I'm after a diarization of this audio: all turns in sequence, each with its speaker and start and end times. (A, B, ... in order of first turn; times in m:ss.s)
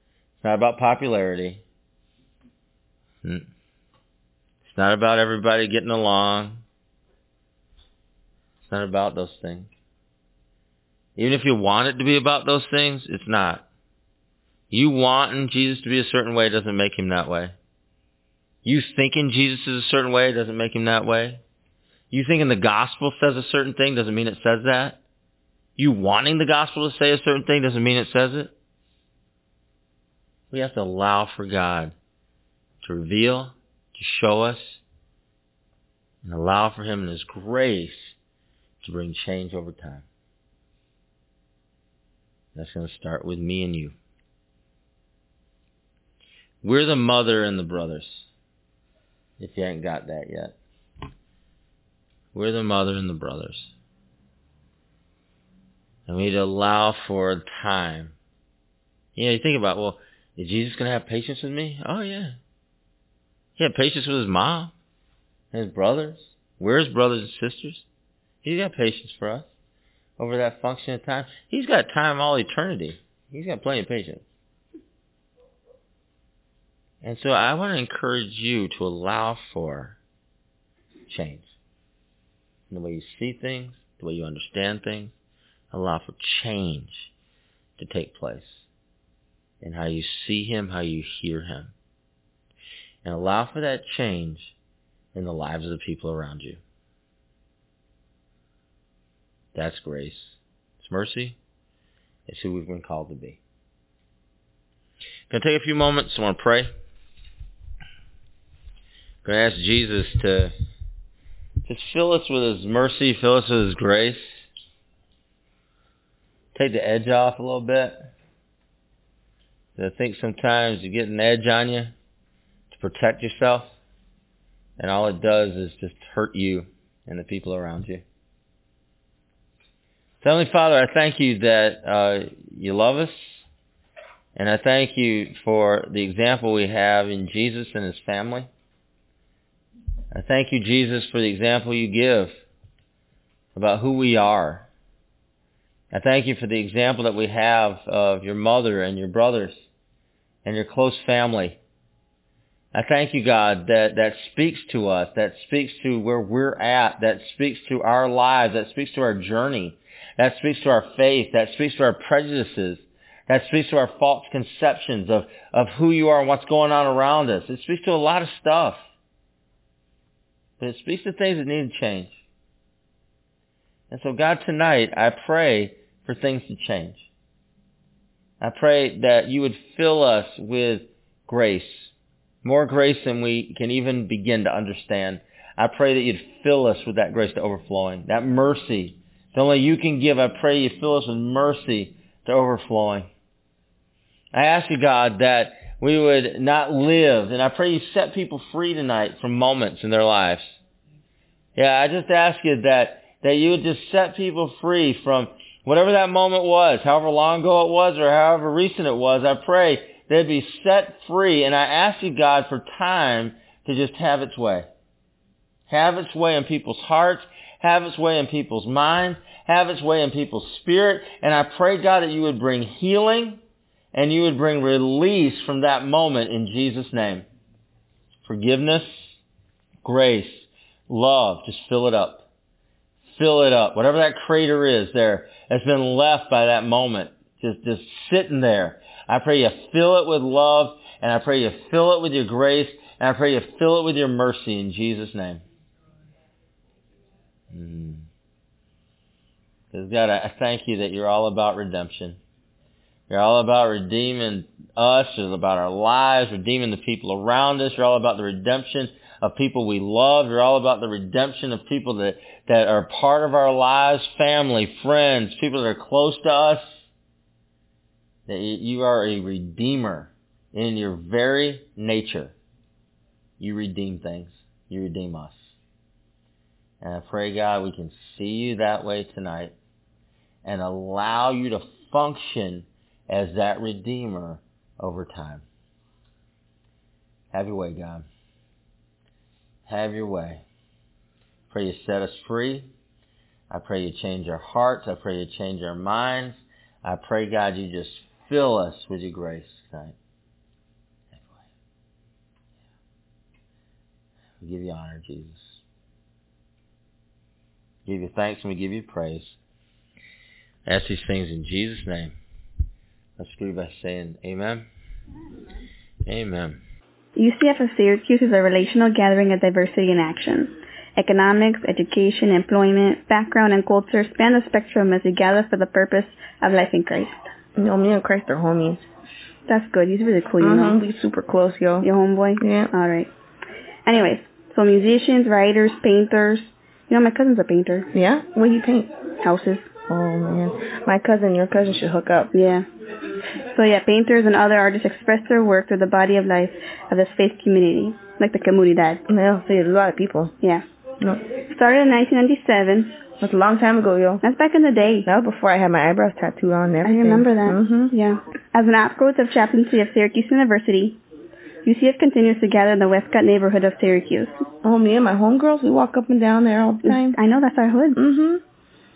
0:00.4-0:01.6 A
0:04.6-0:06.6 A
0:08.7-0:09.7 A
0:11.2-0:13.6 A
0:14.7-0:17.5 A
0:18.6-0:21.4 A
0:22.1-0:25.0 A
0:25.8-0:28.5 A
0:30.5-0:31.9 A
0:32.8-0:34.8 A
0:36.2-0:38.2 A
0:38.8-0:40.0 A
0:42.5-0:43.9 A
0:46.6-0:48.3 A
0:49.4-0:50.5 A
0:52.3-0:53.7 A
0:56.1-0:58.1 A
0:59.2-1:02.3 A
1:03.6-1:04.7 A
1:05.5-1:07.8 A
1:08.4-1:09.5 A
1:10.2-1:14.2 A
1:17.0-1:20.0 A
1:21.1-1:21.5 A
1:22.7-1:25.1 A
1:25.7-1:27.1 A
1:27.8-1:28.6 A
1:29.6-1:31.7 A
1:33.0-1:34.5 A
1:35.1-1:36.6 A
1:39.5-1:41.4 A
1:42.3-1:43.4 A
1:45.3-1:46.7 A
1:49.2-1:50.5 A
1:51.6-1:54.4 A
1:56.5-1:58.1 A
1:59.8-2:01.9 A
2:02.7-2:03.7 A
2:04.8-2:08.0 A
2:10.2-2:13.4 A
2:14.4-2:18.5 A
2:20.1-2:22.3 A
2:23.5-2:24.6 A
2:25.9-2:29.6 A
2:30.4-2:31.6 A
2:32.7-2:48.8 A
2:50.6-2:52.2 A
2:53.9-2:57.1 A
2:58.4-3:01.9 A
3:02.4-3:13.1 A
3:14.3-3:20.5 A
3:21.6-3:34.7 A
3:35.7-3:43.4 A
3:43.9-3:47.2 A
3:48.3-3:48.9 A
3:49.8-3:52.2 A
3:53.2-4:05.4 A
4:07.5-4:08.0 A
4:09.7-4:12.2 A
4:13.1-4:26.6 A
4:28.3-4:32.3 A
4:33.4-4:35.5 A
4:36.8-4:39.5 A
4:40.4-4:45.4 A
4:47.3-4:48.0 A
4:49.7-4:50.4 A
4:51.5-4:52.7 A
4:53.5-5:00.0 A
5:01.1-5:01.4 A
5:04.4-5:05.6 A
5:07.8-5:09.4 A
5:10.6-5:12.2 A
5:13.2-5:14.7 A
5:16.0-5:16.6 A
5:17.2-5:27.1 B
5:27.6-5:28.8 C
5:29.5-5:30.8 B
5:30.4-5:31.8 C
5:31.8-5:33.1 B
5:32.4-5:32.7 C
5:33.8-5:37.9 B
5:37.9-5:38.9 C
5:39.2-5:39.6 B
5:39.9-5:42.3 C
5:42.3-5:42.6 B
5:43.5-5:49.0 B
5:49.1-5:50.3 C
5:51.5-5:53.0 B
5:53.2-5:54.2 C
5:54.2-5:55.1 B
5:55.0-5:57.9 C
5:56.8-6:01.0 B
6:01.6-6:04.3 B
6:04.6-6:07.2 C
6:06.8-6:08.0 B
6:08.0-6:08.4 C